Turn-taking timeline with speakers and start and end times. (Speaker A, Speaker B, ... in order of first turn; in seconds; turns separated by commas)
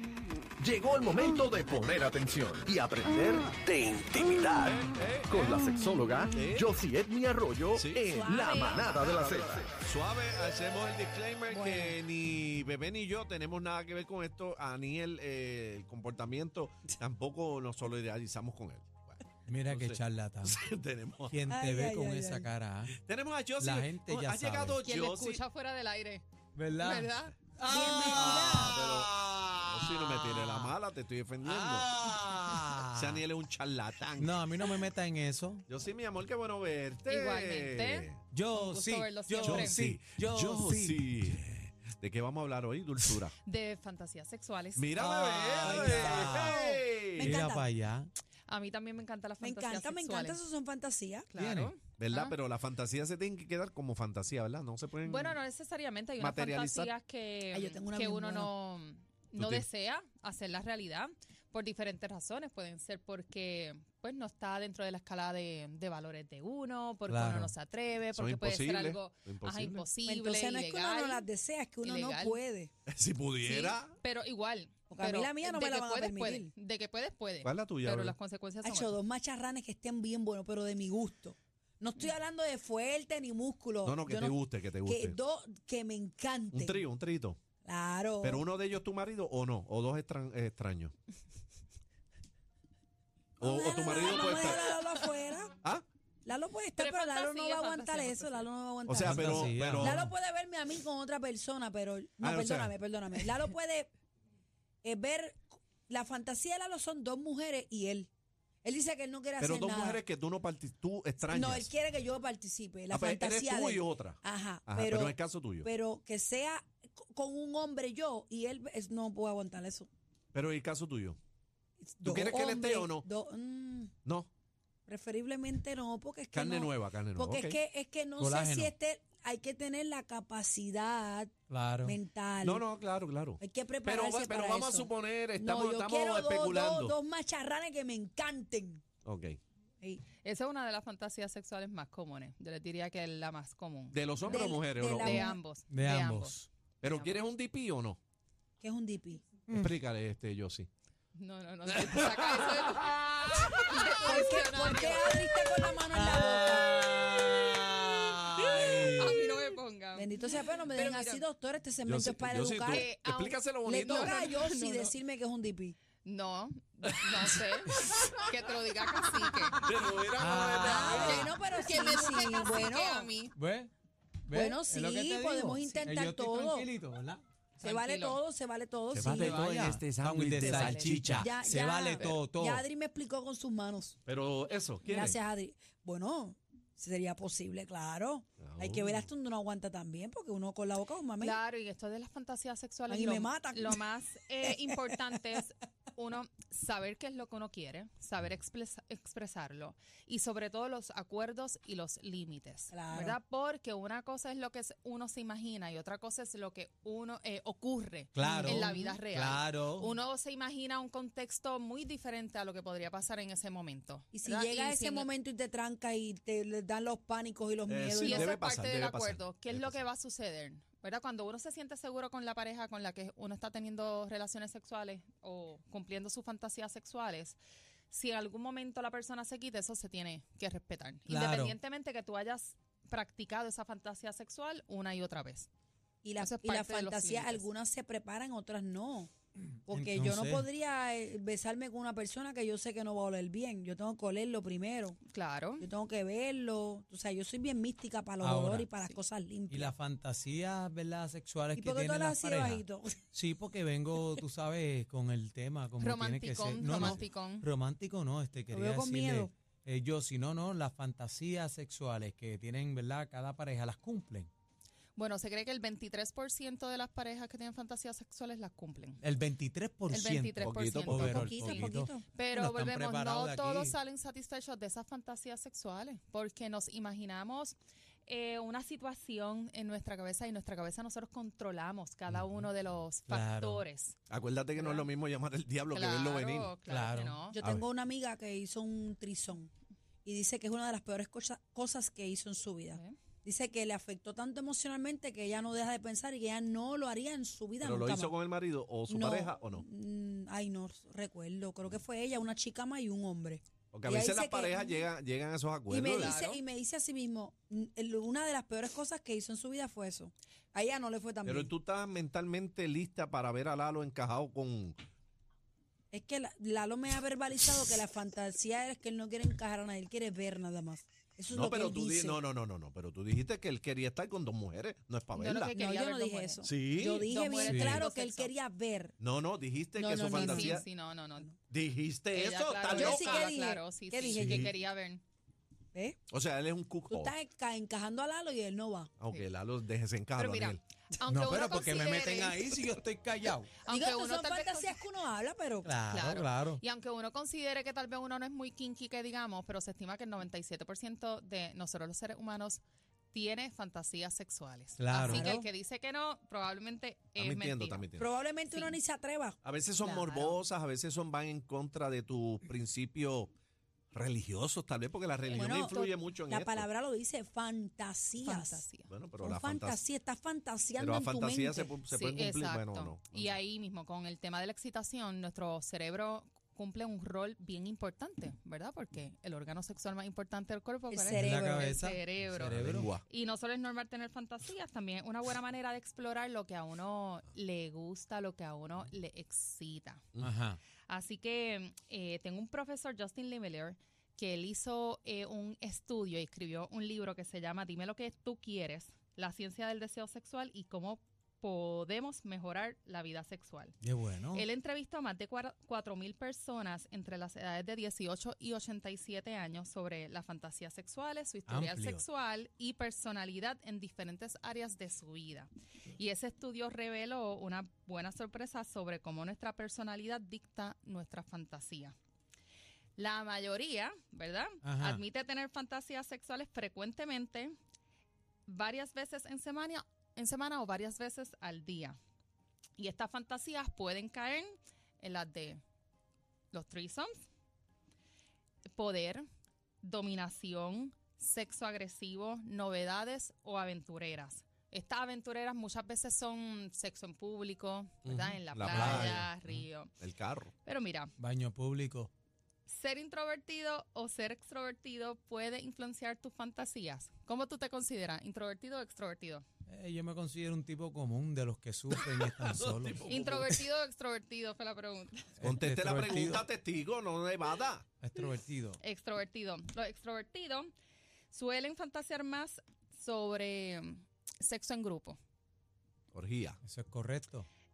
Speaker A: 0.6-9.7, Speaker B: 1.0-2.5, Speaker B: 4.6-5.6, Speaker B: 6.3-6.7, Speaker B: 7.7-8.0, Speaker C: 8.1-8.8, Speaker D: 8.3-8.9, Speaker B: 8.6-21.4, Speaker C: 11.5-12.0, Speaker E: 19.4-20.6, Speaker E: 21.3-22.9, Speaker C: 21.5-22.5, Speaker B: 22.9-25.4, Speaker E: 23.6-24.8, Speaker D: 24.8-26.2, Speaker E: 26.6-27.0, Speaker D: 26.8-27.4, Speaker E: 27.6-30.7, Speaker C: 27.6-28.9, Speaker B: 28.1-31.9, Speaker E: 31.4-33.2, Speaker B: 32.9-34.4, Speaker E: 34.2-35.7, Speaker B: 35.7-38.2, Speaker D: 37.0-39.8, Speaker E: 38.3-41.0, Speaker B: 39.4-43.3, Speaker D: 43.4-45.0, Speaker B: 44.8-47.5, Speaker E: 45.0-46.5, Speaker C: 45.6-47.7, Speaker E: 47.2-48.1, Speaker D: 48.5-50.4, Speaker C: 49.4-51.3, Speaker D: 51.3-52.4, Speaker E: 51.4-51.7, Speaker B: 52.0-55.4, Speaker D: 55.0-71.3, Speaker B: 56.2-56.9, Speaker C: 57.5-58.5, Speaker B: 59.4-59.6, Speaker E: 67.1-67.5, Speaker B: 68.1-69.9, Speaker C: 70.0-72.7, Speaker D: 71.8-72.4, Speaker B: 72.9-73.9, Speaker D: 73.4-79.0, Speaker C: 74.9-76.5, Speaker B: 77.4-78.2, Speaker C: 78.6-86.8, Speaker B: 83.8-85.2, Speaker B: 86.5-87.4, Speaker C: 87.6-88.5, Speaker B: 88.2-90.9, Speaker B: 93.4-94.8, Speaker C: 93.4-95.5, Speaker D: 94.3-94.8, Speaker C: 96.2-103.9, Speaker D: 96.7-98.5, Speaker B: 98.8-100.0, Speaker E: 99.0-100.1, Speaker B: 102.2-102.7, Speaker C: 104.8-108.1, Speaker C: 108.6-110.0, Speaker B: 109.4-111.7, Speaker C: 111.2-119.9, Speaker B: 112.9-115.7, Speaker B: 120.3-121.2, Speaker C: 121.9-123.9, Speaker B: 122.0-123.0, Speaker C: 124.9-131.3, Speaker B: 126.3-127.6, Speaker E: 128.2-128.7, Speaker E: 131.5-131.9, Speaker C: 131.8-132.6, Speaker B: 132.4-136.9, Speaker C: 133.4-138.8, Speaker B: 139.0-139.4, Speaker D: 140.2-144.3, Speaker B: 143.9-145.3, Speaker C: 144.2-145.4, Speaker D: 145.0-147.2, Speaker E: 145.7-146.5, Speaker B: 146.8-148.0, Speaker C: 148.6-149.2, Speaker E: 149.5-149.7, Speaker B: 149.5-150.7, Speaker D: 151.1-155.7, Speaker B: 151.8-152.6, Speaker C: 154.0-156.7, Speaker E: 155.9-159.4, Speaker D: 158.3-161.2, Speaker C: 159.9-162.9, Speaker B: 161.8-164.3, Speaker D: 162.7-164.9, Speaker C: 163.6-165.8, Speaker D: 166.0-169.9, Speaker B: 169.5-171.3, Speaker E: 170.2-171.3, Speaker D: 170.5-173.3, Speaker C: 170.6-173.1, Speaker E: 173.4-173.7, Speaker E: 174.3-177.2, Speaker C: 174.3-176.7, Speaker D: 177.6-178.2, Speaker C: 177.6-179.5, Speaker B: 178.9-181.3, Speaker E: 179.0-182.6, Speaker D: 180.4-181.0, Speaker C: 181.2-184.0, Speaker B: 184.1-185.2, Speaker C: 184.8-191.4, Speaker B: 188.4-189.1, Speaker D: 191.2-215.1, Speaker C: 192.9-193.8, Speaker C: 194.4-195.0, Speaker C: 202.7-203.2, Speaker E: 208.1-209.9, Speaker C: 208.2-208.7, Speaker C: 214.1-218.3, Speaker B: 217.7-219.8, Speaker D: 217.9-227.4, Speaker D: 227.9-235.5, Speaker E: 231.1-231.5, Speaker C: 236.0-239.1, Speaker D: 236.2-237.5, Speaker C: 239.7-245.0, Speaker E: 239.7-240.4, Speaker D: 245.1-245.7, Speaker C: 245.6-249.7, Speaker E: 248.2-248.7, Speaker E: 249.5-252.6, Speaker C: 251.5-253.0, Speaker E: 253.1-264.3, Speaker D: 255.8-257.5, Speaker C: 258.5-259.3, Speaker D: 264.9-269.0, Speaker E: 269.0-273.8, Speaker D: 269.9-277.6, Speaker B: 270.4-271.2, Speaker C: 270.9-272.0, Speaker D: 278.1-283.9, Speaker E: 283.1-283.6, Speaker B: 284.1-286.6, Speaker D: 284.6-284.9, Speaker D: 285.7-287.4, Speaker E: 286.6-287.2, Speaker C: 287.3-289.5, Speaker B: 287.4-287.6, Speaker C: 290.0-298.2, Speaker D: 292.7-293.0, Speaker B: 297.6-299.6, Speaker C: 298.9-304.9, Speaker B: 303.7-306.2, Speaker C: 305.7-311.5, Speaker D: 305.9-306.4, Speaker B: 311.2-314.8, Speaker C: 315.9-322.2, Speaker B: 321.3-325.5, Speaker D: 325.1-326.4, Speaker C: 325.5-328.9, Speaker B: 326.4-327.1, Speaker D: 327.0-328.3, Speaker E: 327.4-327.8, Speaker B: 329.0-330.6, Speaker C: 329.8-330.6, Speaker D: 330.1-331.3, Speaker B: 331.5-333.3, Speaker D: 332.1-335.0, Speaker C: 332.7-334.5, Speaker B: 334.2-334.5, Speaker B: 336.1-337.1, Speaker C: 336.9-338.9, Speaker B: 339.0-340.6, Speaker D: 340.1-342.5, Speaker E: 341.0-343.5, Speaker D: 343.6-344.8, Speaker C: 343.6-345.7, Speaker E: 345.6-346.6, Speaker D: 345.9-357.9, Speaker E: 354.8-355.2, Speaker C: 355.0-355.5, Speaker B: 357.2-358.1, Speaker C: 358.0-359.4, Speaker D: 358.5-358.8, Speaker B: 359.4-363.3, Speaker D: 359.8-360.4, Speaker B: 363.9-366.7, Speaker C: 365.3-368.6, Speaker D: 365.3-365.6, Speaker D: 368.2-368.9, Speaker B: 368.9-369.8, Speaker C: 369.2-371.7, Speaker B: 370.8-373.4, Speaker D: 371.9-390.0, Speaker C: 380.9-381.7, Speaker E: 381.1-382.9, Speaker B: 382.4-383.0, Speaker E: 390.2-390.6, Speaker D: 390.9-403.8, Speaker E: 403.8-404.4, Speaker D: 404.3-421.9, Speaker E: 411.5-412.0, Speaker D: 423.0-427.6, Speaker E: 424.6-425.0, Speaker D: 428.5-432.0, Speaker D: 432.8-435.6, Speaker D: 436.5-437.2, Speaker D: 438.8-439.2, Speaker D: 439.8-449.9, Speaker B: 448.0-449.3, Speaker E: 448.7-449.6, Speaker B: 450.0-450.5, Speaker D: 450.6-451.1, Speaker E: 451.2-452.1, Speaker D: 452.7-459.4, Speaker E: 459.7-463.0, Speaker B: 461.9-463.6, Speaker D: 463.1-465.3, Speaker E: 465.4-466.4, Speaker B: 465.4-467.9, Speaker E: 468.0-468.8, Speaker D: 468.8-470.7, Speaker D: 471.3-475.2, Speaker B: 476.1-476.6, Speaker E: 476.6-477.4